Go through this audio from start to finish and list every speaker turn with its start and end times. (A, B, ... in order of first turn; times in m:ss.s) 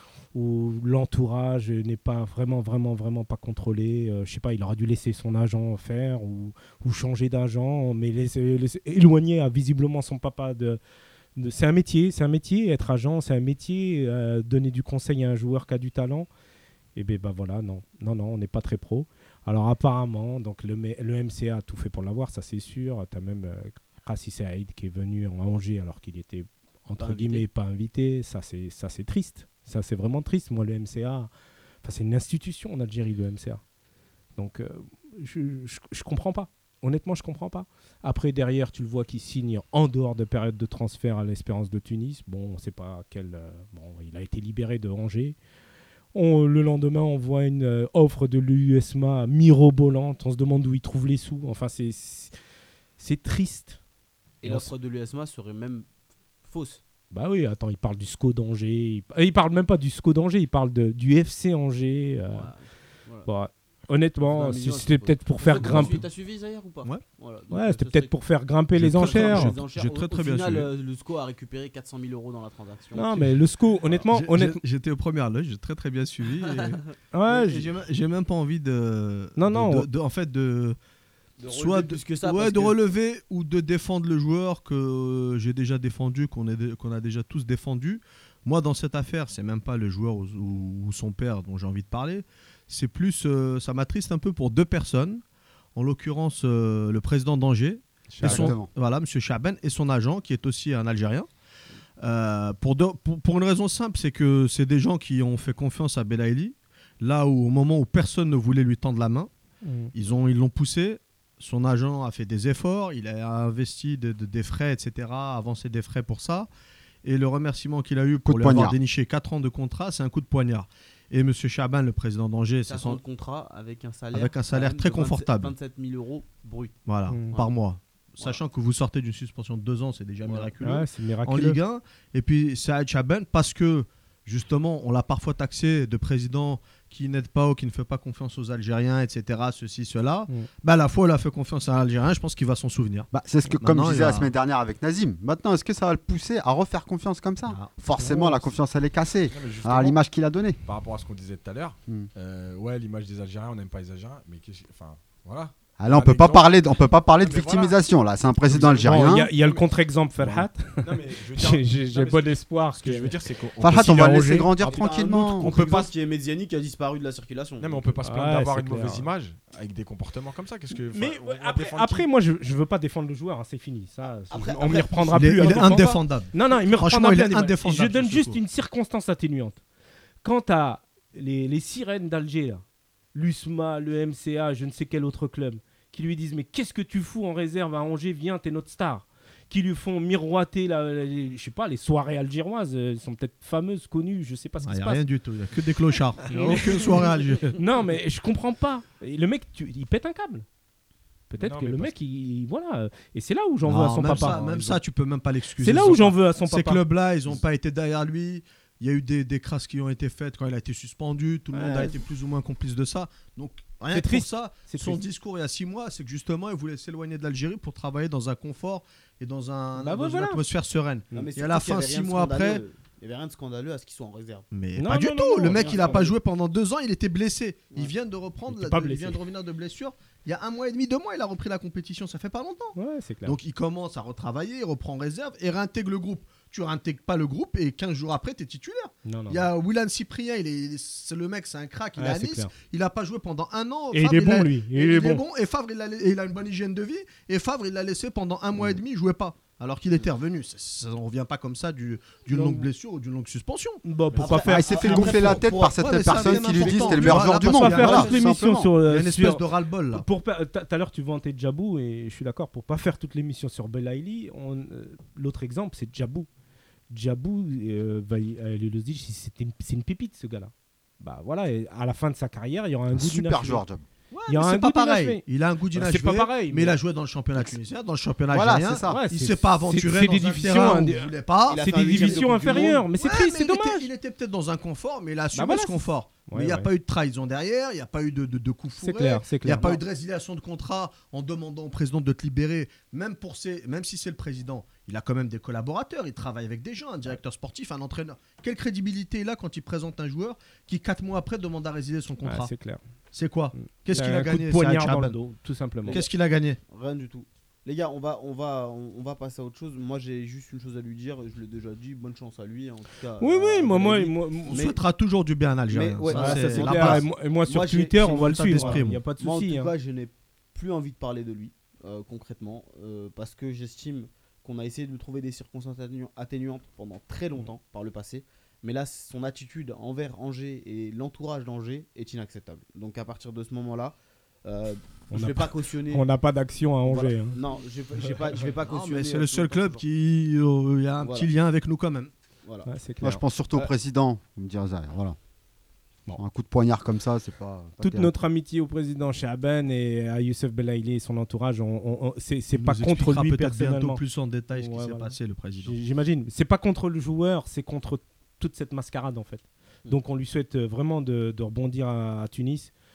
0:00.3-0:10.8 A
0:11.4-0:16.3 A
0:17.0-0:31.3 A
0:27.0-0:27.5 B
0:31.8-0:33.6 A
0:34.4-0:45.4 A
0:46.1-0:52.3 A
0:53.0-0:53.8 A
0:54.4-0:55.9 B
0:54.4-0:54.7 A
0:56.4-0:56.8 B
0:57.1-1:02.5 A
1:02.3-1:03.3 B
1:03.3-1:06.0 A
1:04.2-1:08.1 B
1:05.5-1:06.0 C
1:07.5-1:09.6 A
1:08.8-1:10.7 C
1:09.0-1:13.1 B
1:13.0-1:14.6 A
1:13.9-1:20.8 C
1:16.4-1:16.8 B
1:17.1-1:17.7 A
1:19.4-1:19.9 A
1:21.4-1:22.8 B
1:21.5-1:35.2 C
1:35.8-1:41.3 C
1:38.1-1:38.5 A
1:38.2-1:38.7 D
1:42.0-1:49.3 C
1:49.6-1:49.9 A
1:49.9-1:56.5 C
1:57.0-2:03.0 C
1:58.2-1:58.8 D
2:02.7-2:06.8 B
2:04.1-2:05.5 C
2:06.9-2:23.1 C
2:07.1-2:07.4 A
2:10.2-2:10.5 B
2:10.6-2:11.6 A
2:23.1-2:30.6 D
2:23.6-2:24.3 C
2:27.5-2:27.7 C
2:28.0-2:28.5 A
2:29.3-2:30.0 E
2:30.6-2:36.6 E
2:35.8-2:39.3 D
2:37.2-2:37.8 E
2:38.4-2:39.7 E
2:38.8-2:43.2 A
2:40.2-2:45.9 E
2:43.6-2:45.5 D
2:43.7-2:44.5 A
2:44.6-2:47.9 B
2:47.6-2:52.1 E
2:48.0-2:49.1 A
2:50.9-2:59.6 A
2:54.3-2:55.9 B
2:55.1-2:58.4 C
3:00.2-3:02.6 A
3:03.1-3:15.0 A
3:14.6-3:17.6 C
3:16.3-3:17.0 A
3:17.6-3:20.4 A
3:21.3-3:24.8 A
3:21.4-3:21.9 E
3:23.6-3:42.6 C
3:24.1-3:24.5 E
3:25.6-3:26.8 A
3:31.5-3:32.0 A
3:33.9-3:35.0 A
3:39.8-3:40.4 A
3:41.1-3:44.5 B
3:44.5-4:20.0 C
3:44.8-3:46.1 A
3:45.5-3:46.2 B
3:48.5-3:49.2 A
3:52.8-3:53.4 A
3:59.0-3:59.4 A
4:02.0-4:02.5 A
4:03.9-4:05.2 A
4:12.3-4:12.7 A
4:13.8-4:15.4 A
4:14.3-4:18.7 D
4:16.1-4:17.1 B
4:16.4-4:26.3 A
4:26.9-4:33.6 A
4:32.9-4:33.8 D
4:34.1-5:02.5 C
4:34.3-4:35.2 A
4:35.7-4:36.8 A
4:38.3-4:39.0 D
4:38.9-4:43.9 A
4:41.5-4:42.8 B
4:45.3-4:46.7 A
4:48.8-4:49.8 A
5:02.2-5:02.8 A
5:03.1-5:05.2 C
5:03.6-5:06.0 A
5:05.9-5:06.6 C
5:06.7-5:14.8 B
5:13.2-5:14.6 A
5:14.5-5:17.0 C
5:15.7-5:36.0 B
5:16.1-5:19.7 A
5:18.1-5:19.0 C
5:35.1-5:37.4 A
5:36.9-5:39.8 B
5:38.0-5:38.4 A
5:38.7-5:42.1 C
5:41.0-5:41.3 B
5:42.7-5:43.2 A
5:43.0-5:45.2 D
5:46.2-5:48.1 D
5:47.8-5:54.0 A
5:52.5-5:55.8 C
5:54.6-6:02.7 A